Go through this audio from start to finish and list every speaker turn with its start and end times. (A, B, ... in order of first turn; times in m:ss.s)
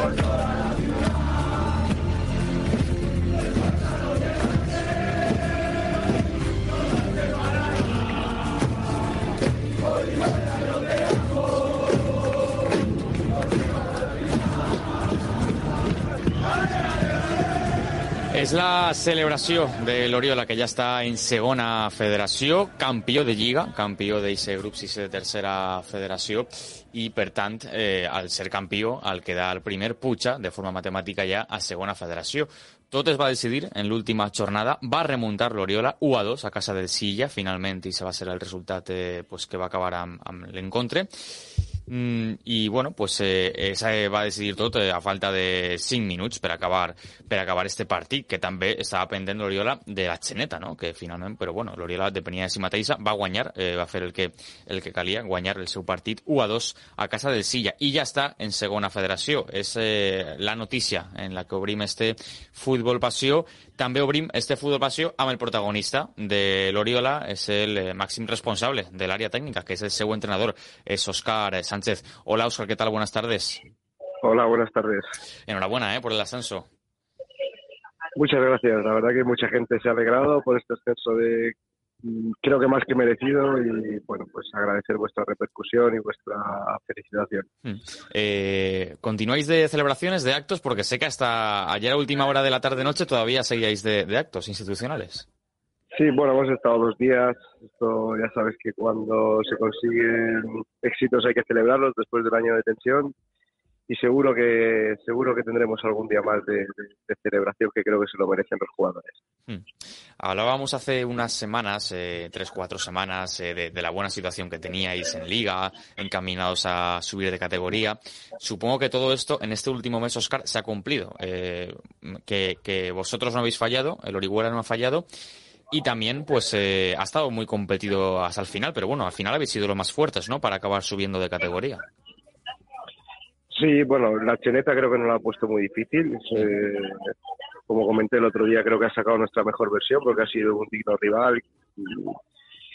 0:18.3-1:13.6 A
1:14.2-1:15.1 B
1:15.5-1:16.7 A
1:18.2-1:27.5 B
1:27.6-1:35.3 A
1:35.9-1:43.1 B
1:43.9-1:49.1 B
1:50.2-2:05.1 A
2:05.7-2:11.8 A
2:13.5-2:17.1 B
2:17.7-2:22.2 B